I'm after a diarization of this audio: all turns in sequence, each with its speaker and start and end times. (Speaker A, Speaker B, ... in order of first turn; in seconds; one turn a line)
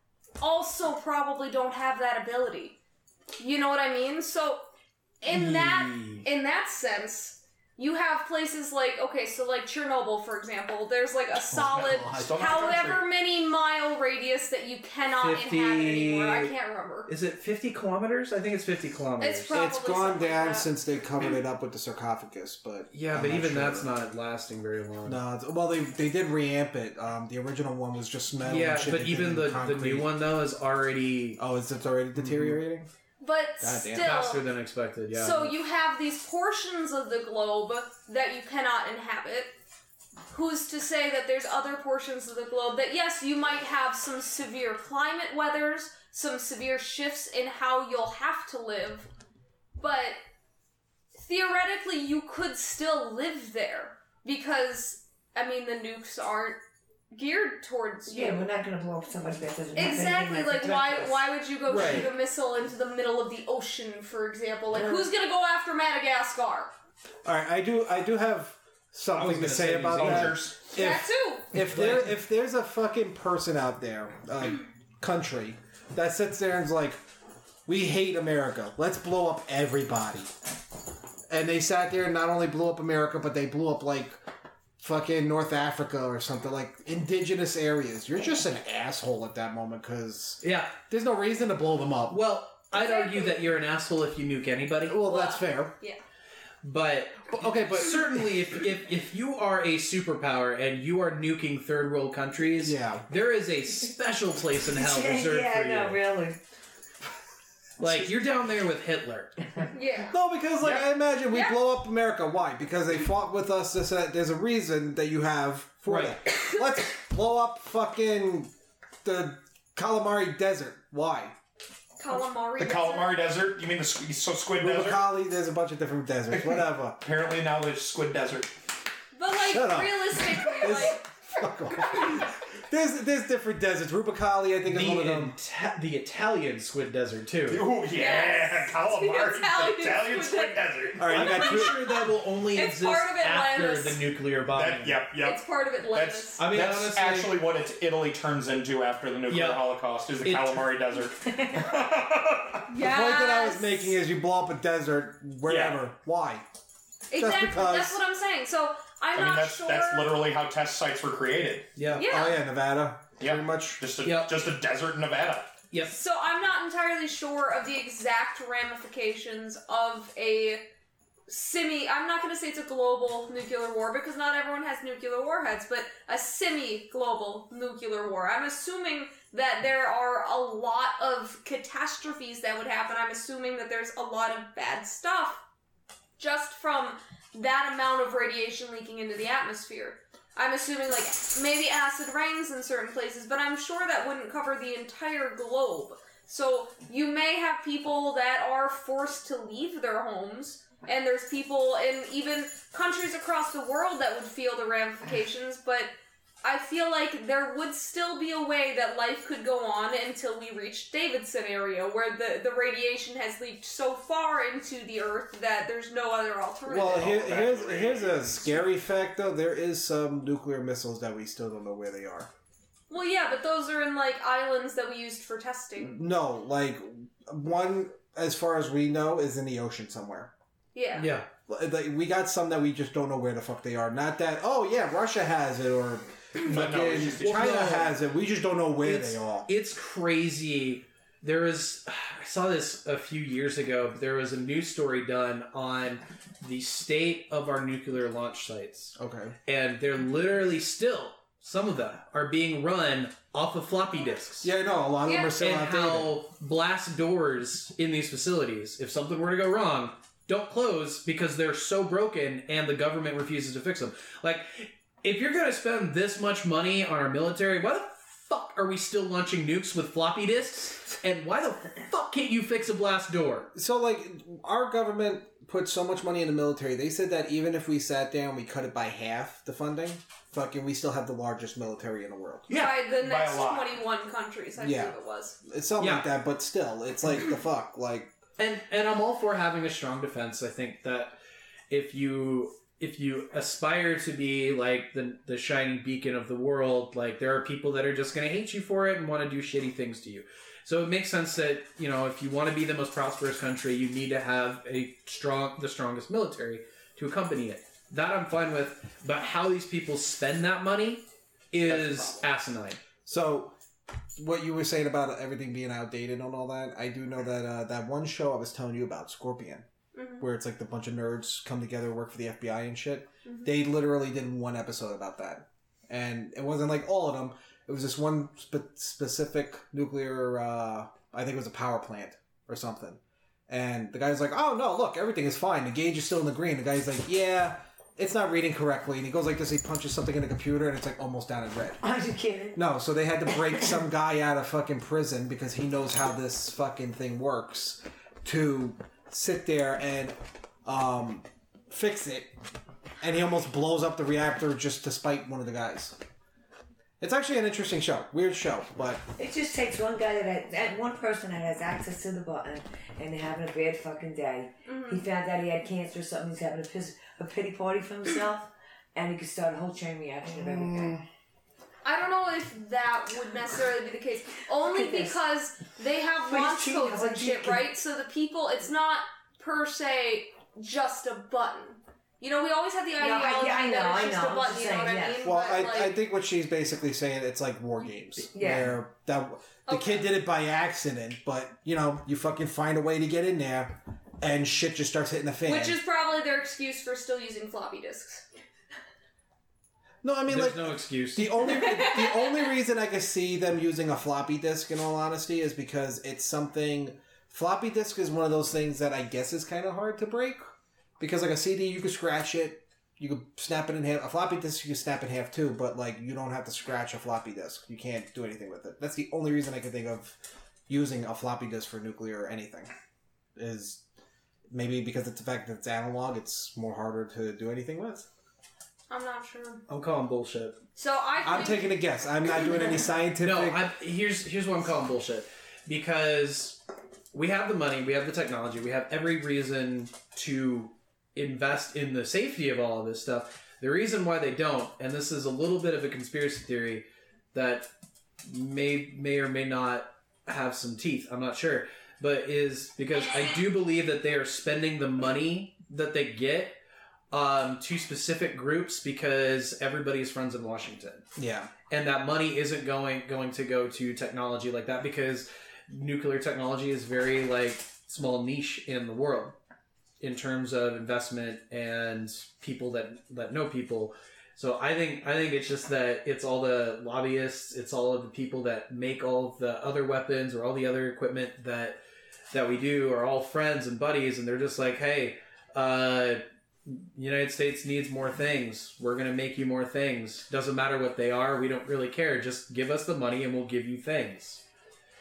Speaker A: 0.4-2.8
Speaker A: 3.4-4.7
Speaker A: 5.2-17.1
Speaker B: 5.3-6.3
Speaker C: 11.5-12.3
Speaker D: 11.9-13.0
Speaker B: 15.2-16.6
Speaker B: 17.1-19.6
Speaker A: 19.2-20.7
Speaker C: 19.5-23.9
Speaker B: 22.9-25.2
Speaker C: 25.1-30.1
Speaker B: 28.4-31.4
Speaker C: 31.4-32.9
Speaker B: 32.2-32.6
Speaker A: 33.2-34.5
Speaker C: 33.6-34.2
Speaker B: 34.0-35.6
Speaker A: 35.1-39.5
Speaker A: 40.3-49.1
Speaker A: 49.8-50.2
Speaker A: 51.1-56.6
Speaker A: 57.1-58.5
Speaker E: 58.1-61.3
Speaker A: 59.7-66.7
Speaker B: 61.7-62.1
Speaker E: 64.7-65.1
Speaker C: 67.2-77.0
Speaker B: 69.1-70.4
Speaker D: 69.9-70.7
Speaker A: 70.7-71.6
Speaker B: 71.6-72.2
Speaker C: 77.7-80.3
Speaker C: 81.3-84.2
Speaker C: 84.8-92.2
Speaker B: 90.4-90.8
Speaker B: 92.1-95.0
Speaker A: 92.7-93.4
Speaker C: 94.9-95.7
Speaker A: 95.0-96.0
Speaker B: 96.6-106.0
Speaker C: 97.3-98.2
Speaker C: 102.6-103.1
Speaker E: 104.7-106.4
Speaker B: 107.8-109.4
Speaker C: 107.8-108.1
Speaker A: 109.7-110.2
Speaker C: 110.1-118.5
Speaker A: 111.3-111.6
Speaker B: 115.9-116.2
Speaker C: 119.0-121.4
Speaker A: 122.0-123.2
Speaker D: 122.6-125.0
Speaker C: 124.6-127.0
Speaker D: 126.3-128.5
Speaker A: 129.1-131.1
Speaker C: 129.4-135.4
Speaker A: 131.8-132.3
Speaker B: 134.7-137.7
Speaker D: 137.5-141.3
Speaker A: 137.9-141.9
Speaker C: 141.0-142.1
Speaker B: 141.1-145.0
Speaker A: 142.5-144.1
Speaker D: 144.5-152.7
Speaker A: 145.2-146.5
Speaker B: 146.4-147.3
Speaker B: 149.3-149.6
Speaker B: 150.2-150.7
Speaker A: 152.7-154.0
Speaker C: 152.8-156.4
Speaker D: 155.5-155.8
Speaker A: 157.1-160.2
Speaker C: 157.2-158.0
Speaker D: 159.2-161.8
Speaker B: 161.8-162.1
Speaker A: 161.9-162.4
Speaker C: 162.0-163.8
Speaker D: 163.2-165.5
Speaker B: 164.0-164.4
Speaker B: 165.7-166.0
Speaker A: 165.8-170.7
Speaker A: 171.3-185.4
Speaker A: 186.2-217.5
Speaker C: 216.7-222.3
Speaker D: 216.8-218.7
Speaker A: 222.9-225.9
Speaker C: 225.8-230.3
Speaker A: 230.7-231.1
Speaker B: 230.9-231.3
Speaker C: 231.5-239.5
Speaker D: 236.4-237.7
Speaker B: 237.2-237.9
Speaker B: 238.8-254.5
Speaker C: 249.0-249.3
Speaker C: 254.4-256.2
Speaker A: 255.1-255.4
Speaker B: 255.4-273.5
Speaker C: 273.5-282.5
Speaker A: 282.5-285.4
Speaker D: 282.6-283.8
Speaker C: 284.6-288.1
Speaker B: 285.8-286.1
Speaker B: 288.4-291.2
Speaker B: 291.7-312.8
Speaker D: 311.6-312.3
Speaker C: 313.1-313.6
Speaker C: 314.2-319.7
Speaker A: 319.9-320.3
Speaker C: 320.2-341.8
Speaker A: 323.3-323.5
Speaker E: 341.8-342.6
Speaker C: 342.6-352.3
Speaker C: 353.0-356.0
Speaker C: 357.0-359.0
Speaker E: 359.2-371.0
Speaker A: 364.7-365.1
Speaker C: 370.3-371.0
Speaker A: 371.8-386.0
Speaker E: 374.7-375.2
Speaker E: 376.3-377.6
Speaker E: 383.0-385.2
Speaker C: 385.2-395.8
Speaker E: 388.3-388.8
Speaker A: 389.7-390.1
Speaker A: 395.5-398.3
Speaker C: 400.0-410.4
Speaker B: 400.3-401.6
Speaker A: 401.5-402.4
Speaker C: 411.0-420.2
Speaker C: 420.7-422.7
Speaker C: 423.4-423.8
Speaker C: 424.5-428.1
Speaker A: 428.9-429.6
Speaker B: 429.7-430.6
Speaker A: 430.8-431.8
Speaker C: 431.2-433.6
Speaker B: 433.2-436.6
Speaker B: 437.1-447.7
Speaker B: 448.2-456.6
Speaker B: 457.1-461.1
Speaker C: 461.2-461.5
Speaker B: 461.7-469.4
Speaker B: 470.0-481.8
Speaker B: 482.3-494.4